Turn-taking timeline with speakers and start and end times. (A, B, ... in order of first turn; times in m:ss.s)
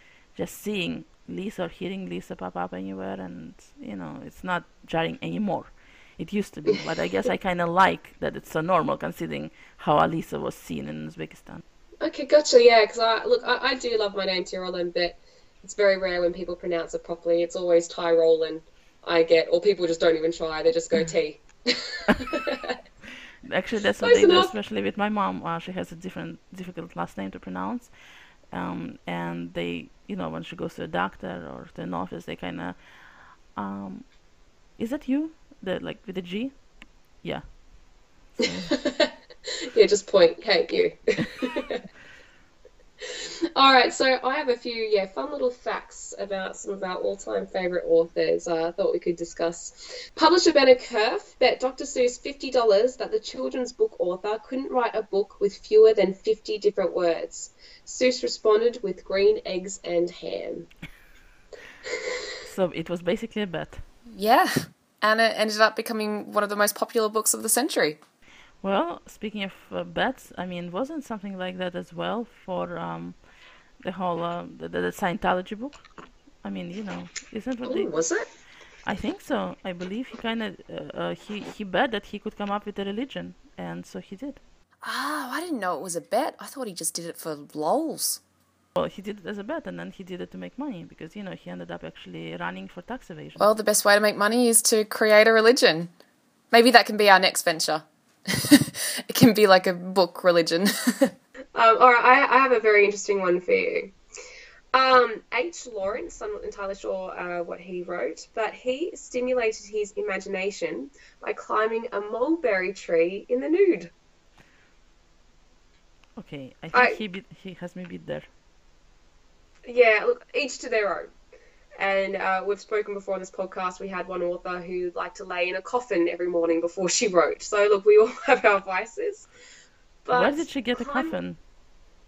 0:00.3-0:11.6 A
0:12.0-0:22.8 B
0:23.4-0:27.9 A
0:24.0-0:24.5 B
0:28.5-0:34.1 A
0:34.7-0:37.6 A
0:38.3-0:38.8 A
0:38.7-0:41.8 B
0:43.0-1:00.7 B
1:02.4-1:03.8 A
1:04.1-1:08.0 C
1:08.6-1:13.2 A
1:13.8-1:15.8 A
1:16.4-1:18.0 A
1:17.6-1:18.3 B
1:18.8-1:24.4 A
1:24.8-1:25.5 B
1:24.9-1:28.2 C
1:28.8-1:33.5 A
1:33.4-1:35.9 C
1:36.5-1:37.8 C
1:38.4-1:40.7 C
1:41.6-1:44.0 B
1:44.7-1:53.9 B
1:56.2-1:58.3 A
1:56.7-1:57.0 B
1:59.6-2:01.2 B
2:01.8-2:09.3 B
2:10.0-2:11.2 B
2:10.1-2:11.4 A